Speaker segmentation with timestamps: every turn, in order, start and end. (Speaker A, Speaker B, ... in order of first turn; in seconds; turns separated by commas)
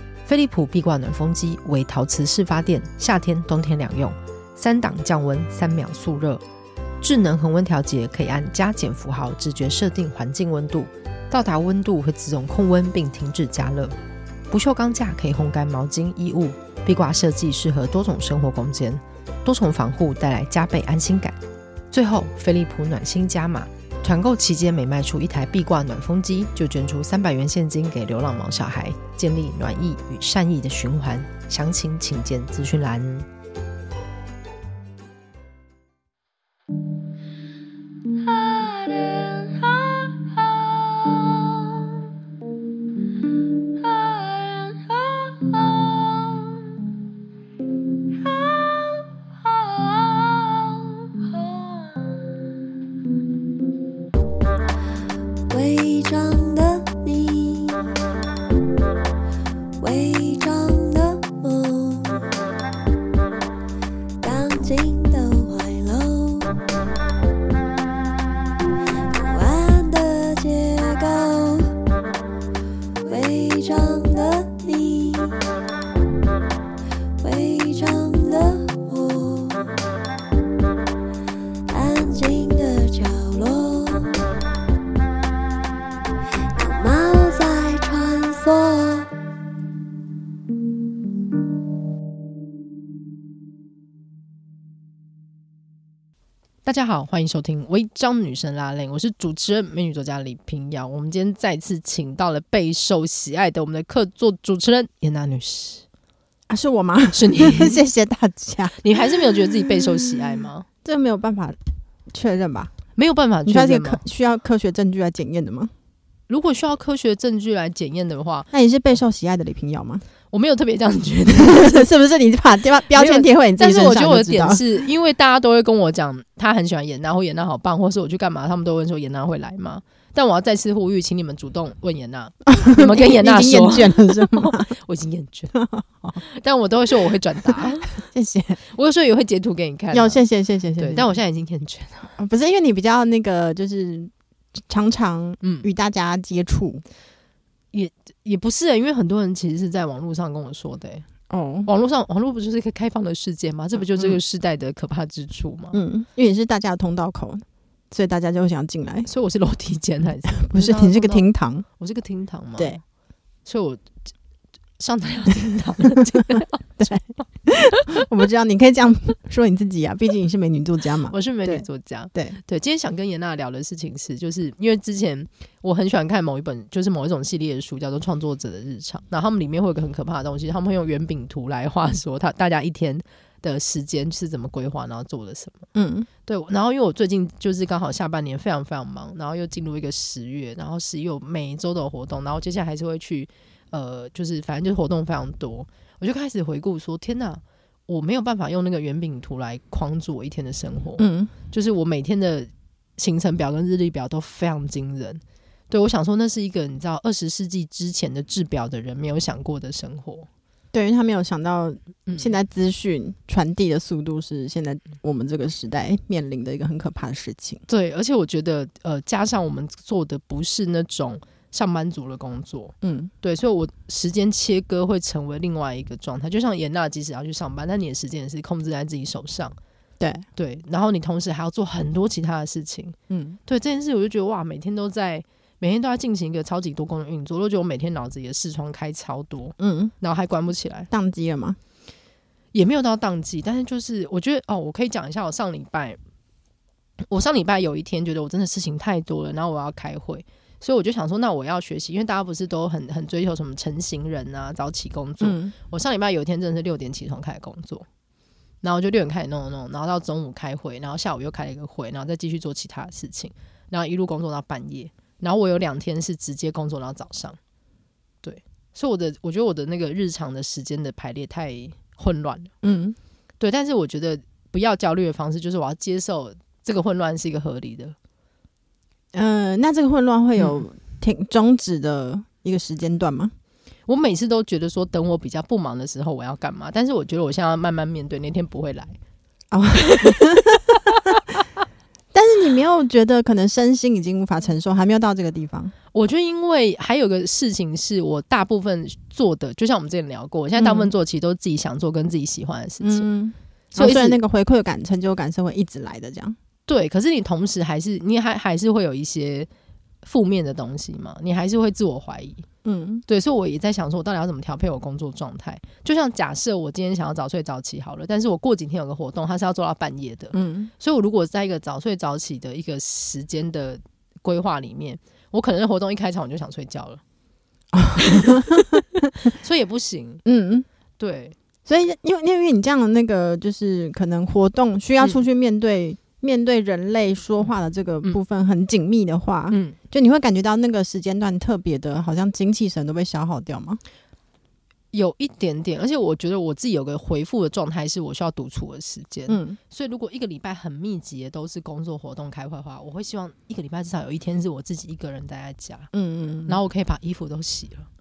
Speaker A: 0.2-6.4, Speaker A: 7.0-13.9, Speaker A: 14.5-21.4, Speaker A: 21.9-33.3, Speaker B: 38.5-39.6, Speaker B: 44.0-45.4, Speaker B: 48.4-49.0, Speaker B: 49.5-51.9, Speaker B: 55.5-57.8, Speaker B: 59.8-62.2, Speaker B: 64.2-66.5, Speaker B: 69.1-71.7, Speaker B: 73.0-75.4, Speaker B: 77.2-79.7, Speaker B: 81.7-84.1, Speaker B: 86.5-89.1, Speaker A: 96.6-105.8, Speaker C: 106.5-110.2, Speaker A: 107.1-107.8, Speaker A: 108.8-110.7, Speaker C: 110.8-111.6, Speaker C: 112.1-112.7, Speaker A: 113.0-114.0, Speaker C: 113.5-115.7, Speaker A: 116.3-118.5, Speaker C: 118.5-120.0, Speaker A: 120.3-121.9, Speaker C: 121.4-124.6, Speaker A: 122.9-135.5, Speaker C: 132.5-134.7, Speaker C: 135.5-136.2, Speaker A: 136.2-138.0, Speaker C: 137.5-138.6, Speaker A: 138.7-140.2, Speaker C: 139.9-141.2, Speaker A: 140.8-142.1, Speaker C: 142.2-146.8, Speaker A: 145.4-145.7, Speaker A: 147.7-151.1, Speaker C: 151.3-151.7, Speaker A: 151.7-155.8, Speaker C: 153.9-154.2, Speaker C: 155.7-159.1, Speaker A: 159.1-162.8, Speaker C: 160.4-161.7, Speaker A: 163.5-163.8, Speaker A: 164.8-167.8, Speaker C: 166.8-172.4, Speaker A: 171.1-185.7, Speaker C: 185.7-186.1, Speaker A: 186.3-210.3, Speaker C: 201.0-201.3, Speaker C: 210.7-217.6, Speaker A: 212.1-212.3, Speaker A: 217.7-229.6, Speaker C: 222.8-223.1, Speaker C: 230.0-230.2, Speaker A: 230.4-240.9, Speaker C: 233.1-233.4, Speaker C: 239.6-239.9, Speaker C: 240.9-241.6, Speaker A: 242.5-246.0, Speaker A: 247.1-257.9, Speaker C: 255.2-255.5, Speaker A: 258.6-267.4, Speaker A: 268.2-272.5, Speaker C: 272.6-273.0, Speaker A: 273.4-277.9, Speaker C: 279.1-283.3, Speaker A: 280.4-280.6, Speaker A: 283.9-289.0, Speaker C: 289.5-291.2, Speaker A: 289.8-291.2, Speaker C: 292.1-295.7, Speaker A: 295.9-303.1, Speaker C: 300.6-300.9, Speaker C: 302.8-306.4, Speaker A: 303.7-304.2, Speaker A: 306.7-309.5, Speaker A: 310.0-312.4, Speaker C: 312.6-313.0, Speaker A: 313.1-327.0, Speaker C: 320.3-320.7, Speaker C: 327.7-329.3, Speaker A: 328.0-328.4, Speaker A: 329.3-330.2, Speaker C: 330.2-330.7, Speaker A: 331.0-331.4, Speaker C: 331.7-343.8, Speaker A: 339.5-339.8, Speaker A: 344.9-355.9, Speaker C: 349.3-349.6, Speaker C: 355.9-356.6, Speaker A: 356.5-357.9